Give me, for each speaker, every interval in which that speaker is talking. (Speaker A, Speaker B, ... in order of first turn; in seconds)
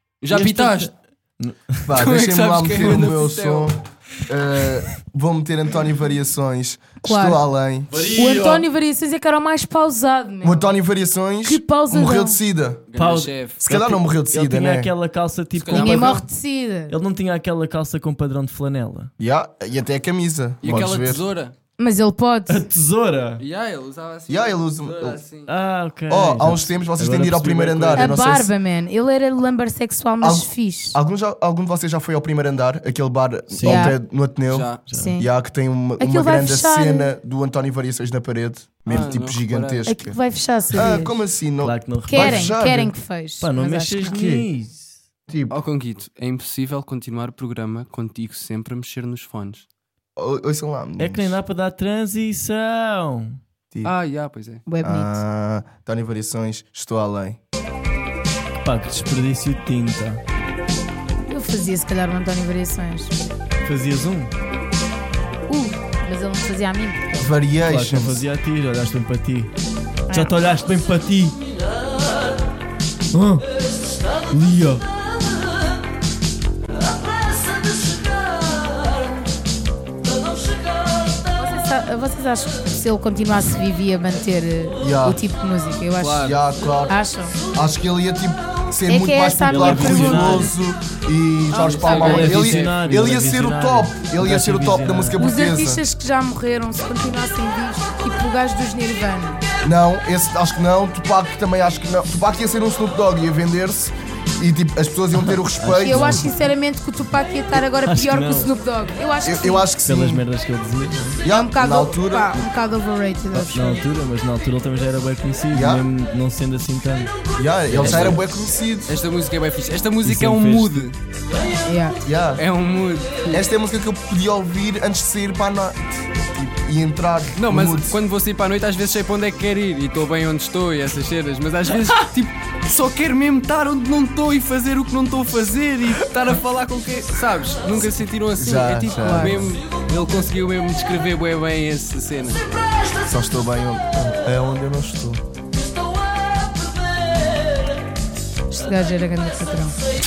Speaker A: 0.2-0.9, 1.9-3.8, 12.9-13.6, 15.6-16.2, 20.6-21.5, 23.4-25.5, 34.5-34.8, 38.9-39.8, 45.5-49.6, 53.8-54.6, 86.0-86.4, 91.8-92.8, 117.8-118.1, 118.9-120.9, 122.4-123.4, 127.4-142.4
Speaker B: 0.3-1.9, 7.9-8.7, 12.9-16.2, 16.9-19.1, 22.5-23.4, 25.4-28.1, 33.5-33.9, 34.9-35.1, 41.6-42.5, 43.4-45.0, 51.0-53.4, 58.6-60.2, 63.6-64.3, 67.6-69.5, 70.1-71.4, 73.1-73.5, 74.2-74.9, 77.4-78.8, 89.5-90.5, 91.9-95.2, 105.2-106.3, 107.7-108.5, 109.8-111.2, 113.3-117.1, 117.7-118.2, 120.0-120.9
Speaker C: 1.9-8.1, 10.4-12.8, 13.6-14.9, 19.2-21.2, 24.3-25.2, 26.1-28.5, 30.2-40.2, 40.7-42.9, 44.0-44.5, 45.3-45.5, 50.2-51.3, 54.8-57.4, 67.2-68.2, 84.8-85.2, 86.2-86.9, 87.5-95.8, 99.6-106.2, 109.2-110.2, 111.2-112.5, 115.5-115.8, 117.3-118.9, 122.0-122.4, 123.3-128.0, 138.3-139.5, 143.0-145.2
Speaker D: 7.0-7.5, 8.1-10.7, 11.4-12.4, 15.7-16.9, 21.8-22.6, 27.9-31.0, 33.6-33.9, 34.9-35.3, 36.0-37.1, 39.9-41.2, 42.1-44.2, 54.7-55.2, 61.3-63.1, 65.5-67.3, 81.3-86.3, 86.9-87.3, 88.9-90.5, 91.5-92.3, 95.2-99.4, 105.8-109.7, 111.2-113.8, 121.6-122.0, 139.0-139.4, 148.5-149.8